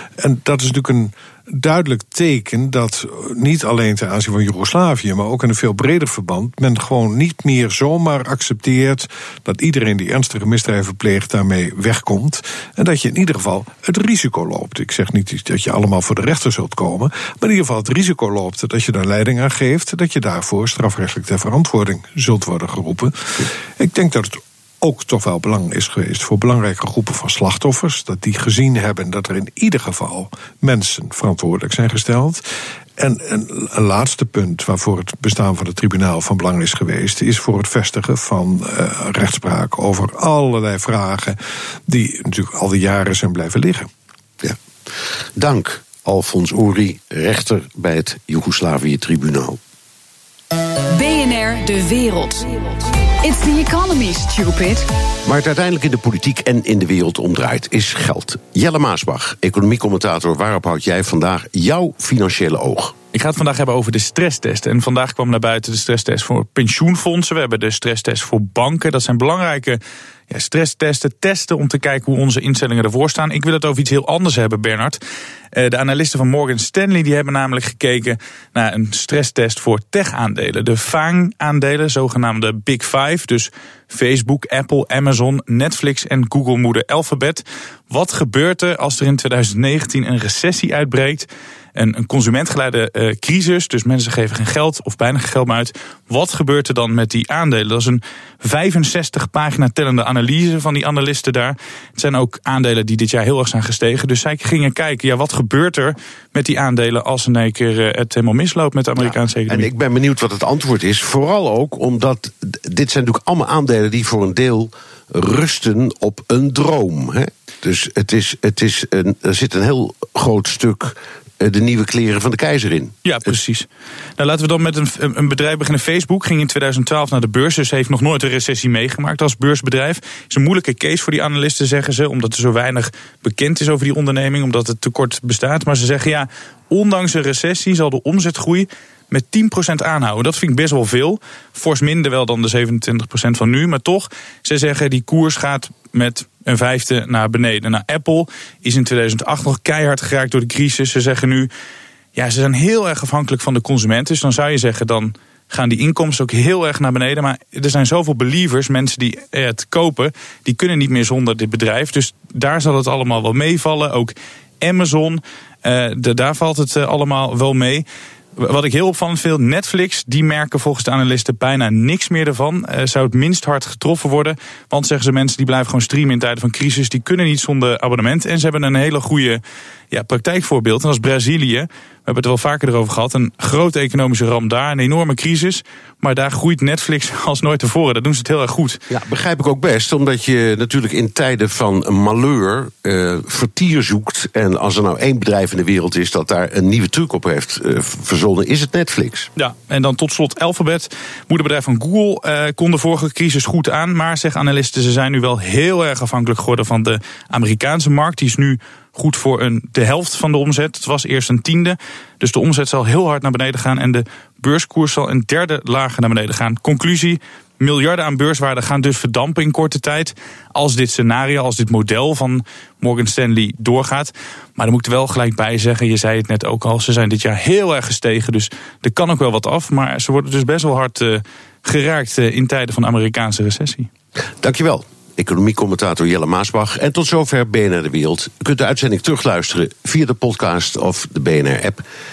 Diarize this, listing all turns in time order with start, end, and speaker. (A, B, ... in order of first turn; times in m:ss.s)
0:00.2-0:32.4 A
0:33.0-0:41.4 A
0:41.9-0:43.9 A
0:45.4-0:49.6 B
0:50.9-0:54.9 C
0:55.2-1:03.0 B
1:03.1-1:15.0 D
1:15.5-1:49.7 D
1:49.0-2:03.3 B
2:03.0-2:03.7 D
2:04.2-2:31.5 D
2:32.1-2:47.8 D
2:48.4-3:08.8 D
3:08.9-3:19.3 B
3:19.4-3:53.9 D
3:54.4-4:01.8 B